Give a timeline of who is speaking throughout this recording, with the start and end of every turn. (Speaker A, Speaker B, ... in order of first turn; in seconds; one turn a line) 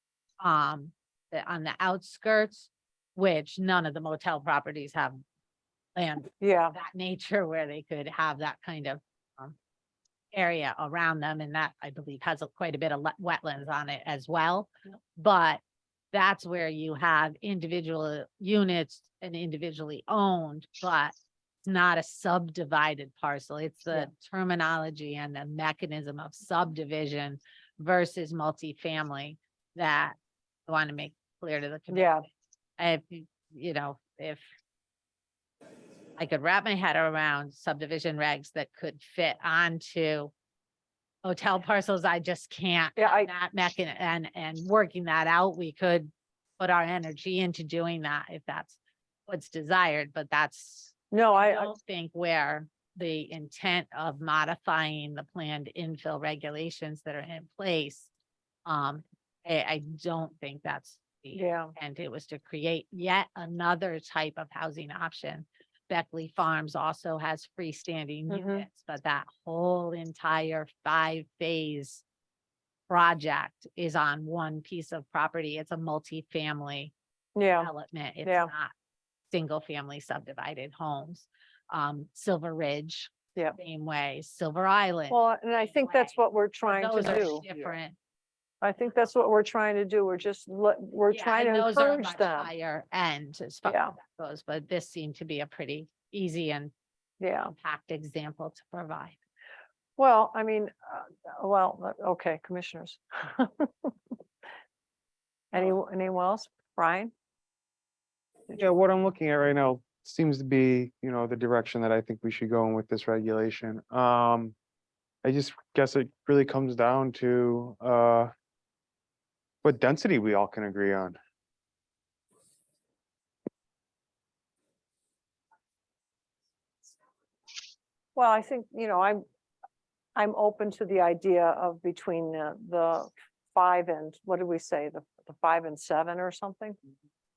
Speaker A: 0.4-5.2
Speaker A: 5.9-9.6
Speaker B: 6.4-6.8
Speaker A: 10.3-15.6
Speaker A: 16.1-30.1
Speaker A: 30.7-32.1
Speaker B: 31.9-32.2
Speaker A: 32.8-34.4
Speaker A: 36.2-40.3
Speaker A: 41.2-58.1
Speaker B: 43.0-43.3
Speaker B: 51.1-51.7
Speaker A: 58.6-72.0
Speaker B: 61.3-61.7
Speaker B: 68.3-68.7
Speaker A: 72.9-76.9
Speaker B: 77.3-77.7
Speaker A: 77.6-78.7
Speaker B: 78.2-78.5
Speaker A: 79.3-86.2
Speaker B: 85.1-87.5
Speaker A: 86.7-88.0
Speaker B: 88.6-92.5
Speaker A: 91.1-96.7
Speaker B: 93.7-93.9
Speaker B: 97.2-97.5
Speaker A: 97.6-99.2
Speaker B: 100.0-104.1
Speaker B: 105.5-107.1
Speaker C: 108.5-114.5
Speaker C: 115.2-118.3
Speaker C: 119.6-121.2
Speaker B: 128.1-129.2
Speaker B: 130.2-136.8